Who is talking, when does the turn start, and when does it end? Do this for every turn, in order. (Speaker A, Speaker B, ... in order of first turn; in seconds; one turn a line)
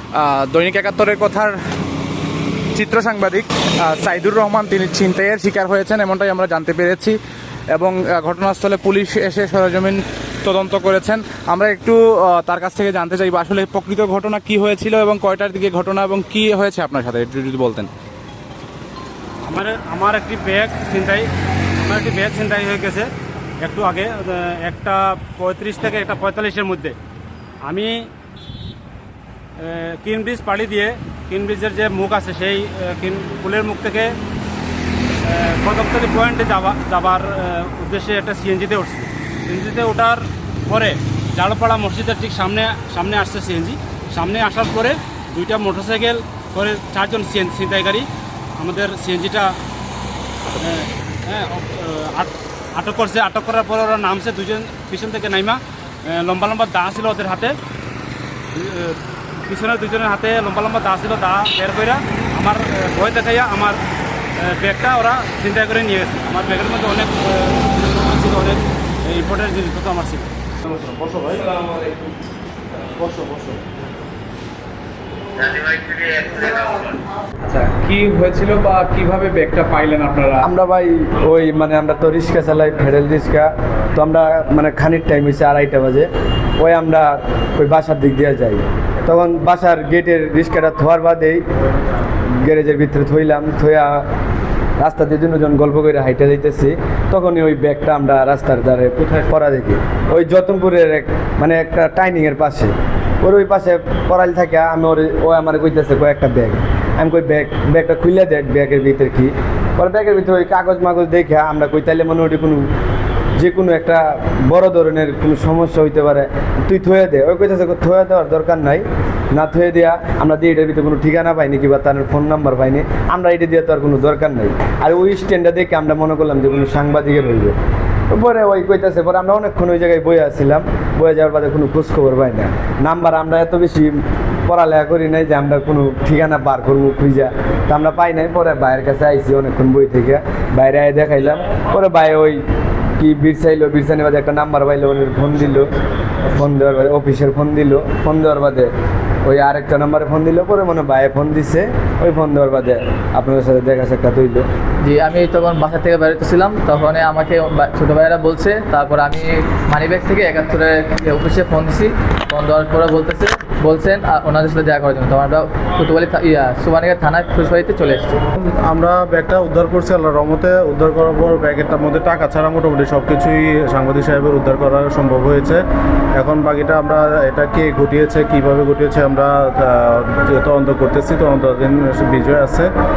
Speaker A: 0.2-1.6
Speaker A: 2.7-7.2
Speaker A: 7.7-17.9
Speaker B: 19.4-21.3
Speaker B: 21.8-23.1
Speaker B: 23.6-27.0
Speaker B: 27.6-28.1
Speaker B: 29.6-34.1
Speaker B: 35.2-48.1
Speaker B: 48.6-49.6
Speaker B: 50.6-57.6
Speaker B: 58.5-63.8
Speaker B: 64.4-70.3
Speaker C: 70.7-71.4
Speaker A: 71.5-71.9
Speaker C: 73.0-73.6
Speaker A: 75.4-80.5
Speaker D: 80.4-91.4
Speaker D: 92.4-94.0
Speaker D: 94.8-112.7
Speaker D: 113.4-127.5
Speaker D: 128.1-142.4
Speaker D: 143.0-145.7
Speaker D: 146.2-148.7
Speaker D: 149.3-154.5
Speaker E: 154.8-168.2
Speaker C: 168.4-175.6
Speaker C: 176.2-182.7